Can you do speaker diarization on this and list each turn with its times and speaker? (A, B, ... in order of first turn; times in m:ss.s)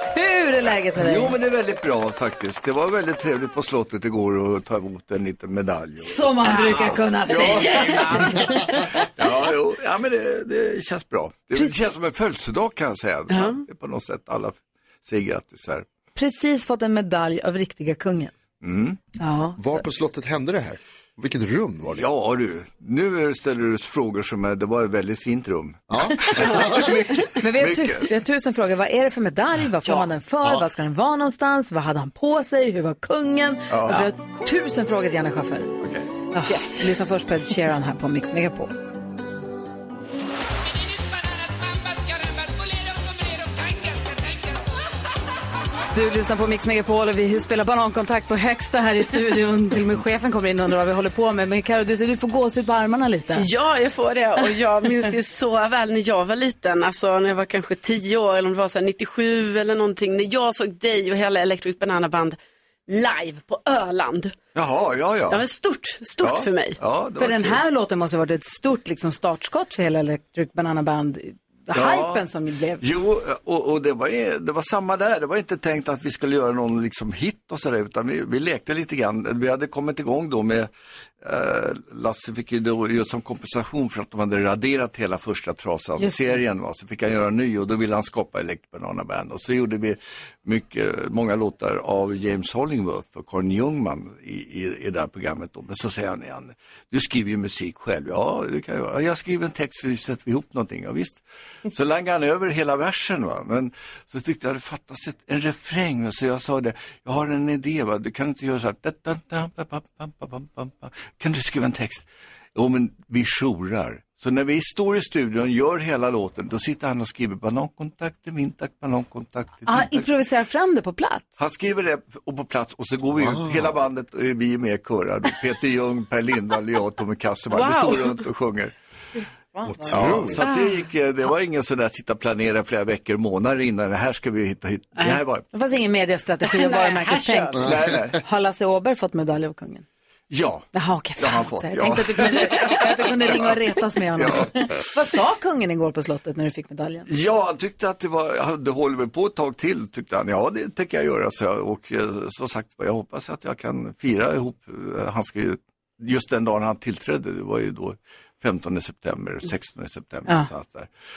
0:00.1-0:01.4 A
0:00.9-0:06.6 B
0:06.0-0:08.8 A
0:07.2-0:15.8 B
0:11.5-0:11.8 A
0:13.3-0:13.6 C
0:16.2-0:18.3 A
0:18.6-0:19.0 B
0:19.2-0:19.8 A
0:19.6-0:22.0 D
0:21.9-0:28.1 B
0:25.9-0:27.0 D
0:27.2-0:35.7 A
0:33.7-0:34.0 B
0:35.8-0:36.1 B
0:36.3-0:38.7 A
0:36.4-0:36.8 C
0:45.9-0:53.4 A
0:53.4-1:02.4 C
1:02.9-1:04.3 C
1:04.5-1:05.4 B
1:05.3-1:06.8 C
1:06.2-1:07.6 B
1:07.2-1:12.8 A
1:11.7-1:12.2 B
1:12.8-1:20.7 B
1:21.2-2:00.1 B
1:26.0-1:26.4 A
1:59.7-2:01.3 A
2:01.4-2:08.7 B
2:03.2-2:03.7 D
2:07.5-2:08.2 C
2:09.5-2:10.4 A
2:09.6-2:10.4 D
2:09.9-2:15.4 B
2:10.4-2:10.7 C
2:15.5-2:19.8 A
2:16.4-2:17.6 C
2:17.6-2:18.0 D
2:17.6-2:18.2 B
2:20.3-2:23.6 B
2:20.7-2:27.1 A
2:24.1-2:24.7 B
2:27.1-2:40.9 B